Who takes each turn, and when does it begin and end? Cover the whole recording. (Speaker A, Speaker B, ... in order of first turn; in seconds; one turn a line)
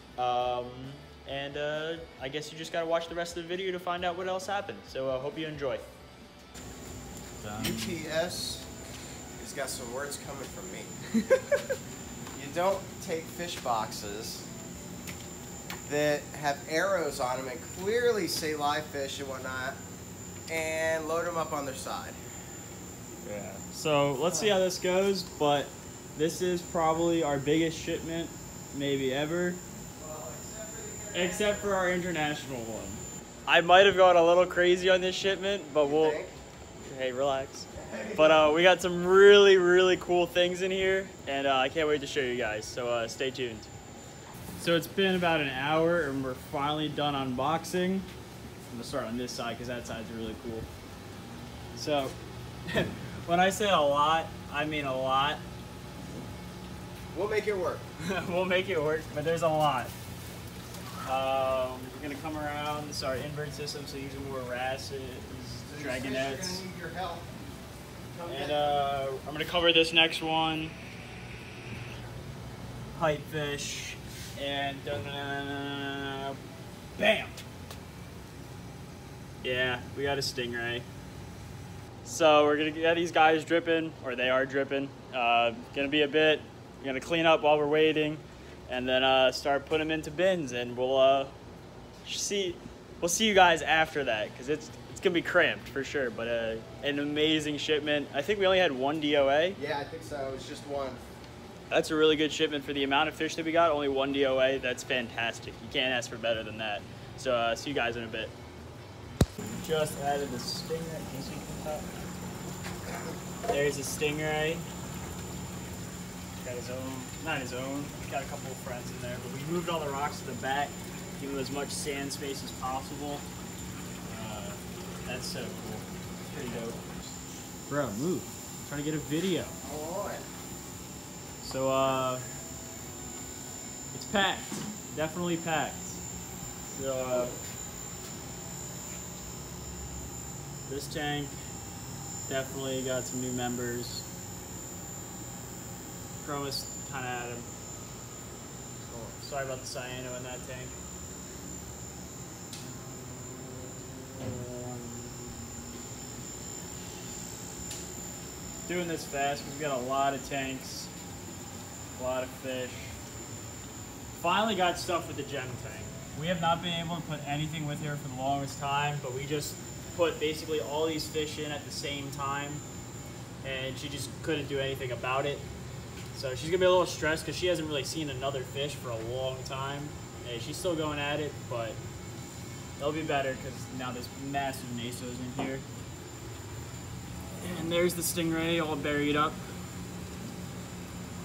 Speaker A: 0.2-5.9
Speaker A: 7.4-8.0
Speaker B: 7.6-8.7
Speaker B: 9.4-10.9
Speaker B: 12.3-14.5
Speaker B: 15.8-19.8
Speaker B: 20.5-22.2
Speaker A: 23.2-29.6
Speaker B: 24.3-24.6
Speaker B: 30.0-31.8
Speaker A: 31.1-36.2
Speaker B: 35.8-36.4
Speaker A: 36.8-43.7
Speaker B: 37.7-38.5
Speaker A: 44.6-48.1
Speaker A: 48.7-50.7
Speaker A: 51.8-52.1
Speaker A: 52.7-55.4
Speaker B: 57.1-57.9
Speaker A: 58.0-59.9
Speaker A: 61.0-66.6
Speaker B: 65.7-67.3
Speaker B: 68.1-68.8
Speaker A: 68.3-70.8
Speaker A: 72.9-76.4
Speaker A: 77.0-77.4
Speaker A: 79.4-80.9
Speaker A: 82.0-91.3
Speaker A: 92.0-99.6
Speaker B: 99.6-101.0
Speaker A: 101.7-108.3
Speaker A: 109.4-112.1
Speaker A: 113.5-114.7
Speaker A: 116.4-123.3
Speaker A: 124.0-126.8
Speaker B: 126.3-127.1
Speaker A: 127.7-129.6
Speaker B: 129.6-130.2
Speaker A: 131.4-132.3
Speaker A: 133.9-136.0
Speaker A: 136.7-137.4
Speaker A: 140.7-141.3
Speaker A: 142.3-144.1
Speaker A: 146.2-147.5
Speaker A: 148.8-150.8
Speaker A: 154.2-154.9
Speaker A: 158.7-160.9
Speaker A: 162.0-163.0
Speaker A: 164.2-172.7
Speaker A: 173.4-175.5
Speaker A: 176.1-181.8
Speaker A: 182.8-185.7
Speaker A: 187.4-189.4